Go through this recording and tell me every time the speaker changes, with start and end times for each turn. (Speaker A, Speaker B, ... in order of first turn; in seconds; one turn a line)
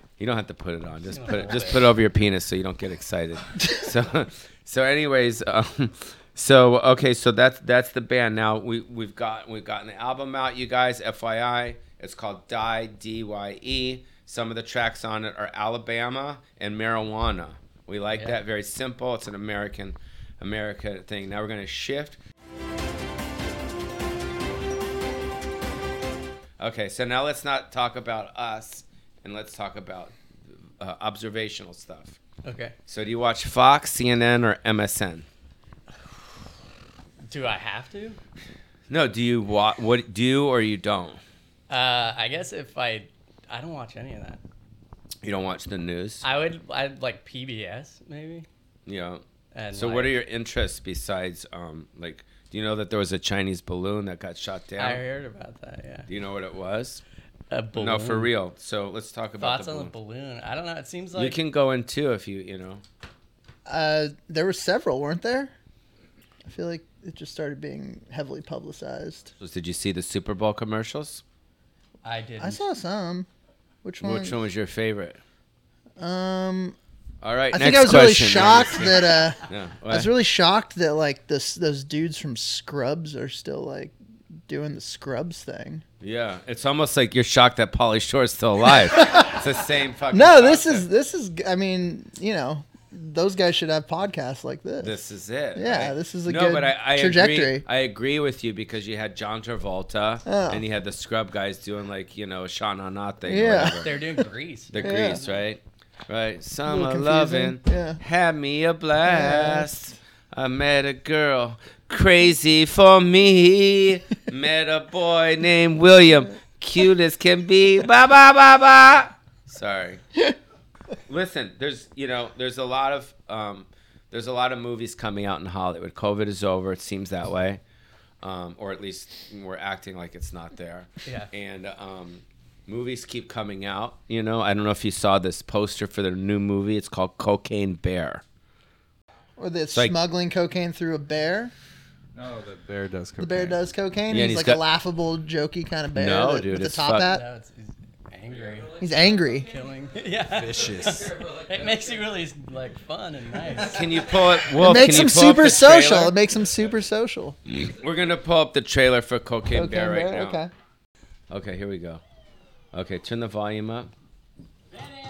Speaker A: 0.2-22.2
Speaker B: 1.1-1.9
Speaker A: 26.6-32.2
Speaker B: 32.4-32.8
Speaker A: 32.9-35.3
Speaker B: 37.2-38.2
Speaker A: 38.9-41.2
Speaker B: 41.7-44.4
Speaker A: 45.2-46.2
Speaker B: 46.2-48.5
Speaker A: 48.9-55.0
Speaker B: 49.5-50.2
Speaker B: 54.8-56.1
Speaker A: 56.1-57.0
Speaker B: 57.5-58.3
Speaker A: 57.8-59.9
Speaker B: 59.4-61.4
Speaker A: 61.1-62.8
Speaker C: 63.7-65.5
Speaker C: 66.4-69.3
Speaker A: 69.4-71.2
Speaker B: 72.0-72.6
Speaker C: 72.4-73.3
Speaker C: 73.8-74.4
Speaker A: 74.0-75.2
Speaker C: 76.0-76.8
Speaker A: 77.2-80.1
Speaker C: 77.5-84.0
Speaker C: 84.5-85.8
Speaker A: 86.0-90.9
Speaker C: 88.9-89.4
Speaker C: 90.1-95.0
Speaker A: 94.8-104.0
Speaker C: 95.5-97.7
Speaker C: 100.3-100.6
Speaker C: 103.2-104.1
Speaker B: 103.8-105.2
Speaker A: 104.7-120.0
Speaker C: 104.8-105.2
Speaker C: 106.7-108.0
Speaker C: 109.0-109.7
Speaker A: 121.1-127.6
Speaker A: 128.2-138.2
Speaker B: 131.1-131.3
Speaker C: 139.4-141.5
Speaker A: 139.7-140.0
Speaker D: 142.2-143.6
Speaker C: 143.2-147.2
Speaker A: 144.1-144.6
Speaker A: 145.9-147.1
Speaker B: 147.0-148.8
Speaker C: 148.8-149.5
Speaker B: 149.4-153.8
Speaker D: 150.3-151.3
Speaker A: 153.6-156.2
Speaker C: 154.6-157.4
Speaker A: 157.5-160.4
Speaker C: 159.5-160.5
Speaker A: 161.3-162.0
Speaker A: 162.7-163.9